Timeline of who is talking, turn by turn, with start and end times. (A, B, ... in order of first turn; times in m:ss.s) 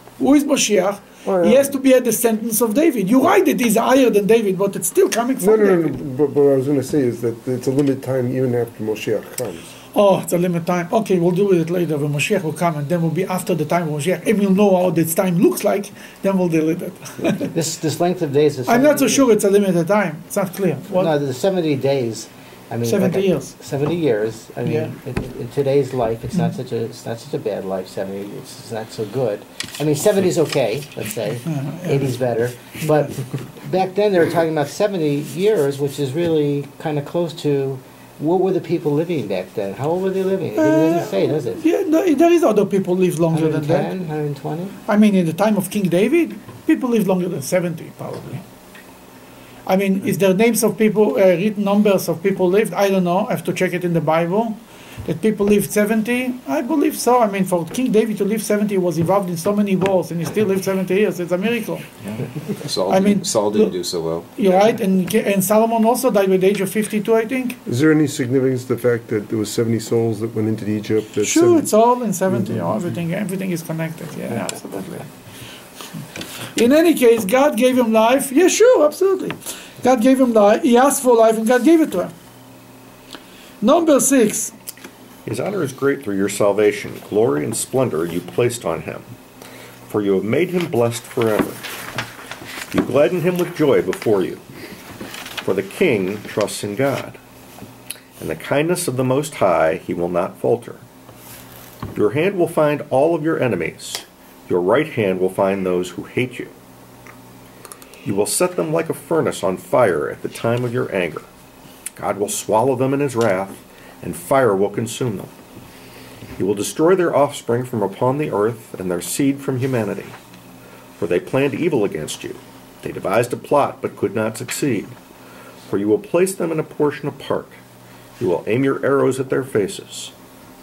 0:00.2-0:06.0 A
0:01.2-0:01.8 B
0:05.4-0:09.7 B
0:09.9-0:17.5 A
0:17.5-0:19.2 C
0:18.7-0:21.1 A
0:20.9-0:41.6 C
0:22.8-0:23.5 A
0:24.6-0:24.9 A
0:31.5-0:32.1 A
0:40.6-0:43.9 A
0:43.3-0:44.8 C
0:44.8-0:48.4 A
0:49.6-1:01.8 A
1:02.0-1:04.3 D
1:02.9-1:03.8 A
1:04.3-1:07.6 A
1:07.6-1:11.7 B
1:11.2-1:15.1 A
1:12.3-1:12.6 B
1:16.5-1:22.1 A
1:23.6-1:24.5 A
1:25.2-1:29.0 E
1:29.9-1:31.6 E
1:32.7-1:34.4 E
1:35.4-1:37.2 E
1:38.2-1:40.8 E
1:41.9-1:46.5 E
1:48.0-1:51.3 E
1:52.0-1:55.3 E
1:56.4-2:00.2 E
2:01.0-2:04.9 E
2:05.7-2:07.6 E
2:08.2-2:10.1 E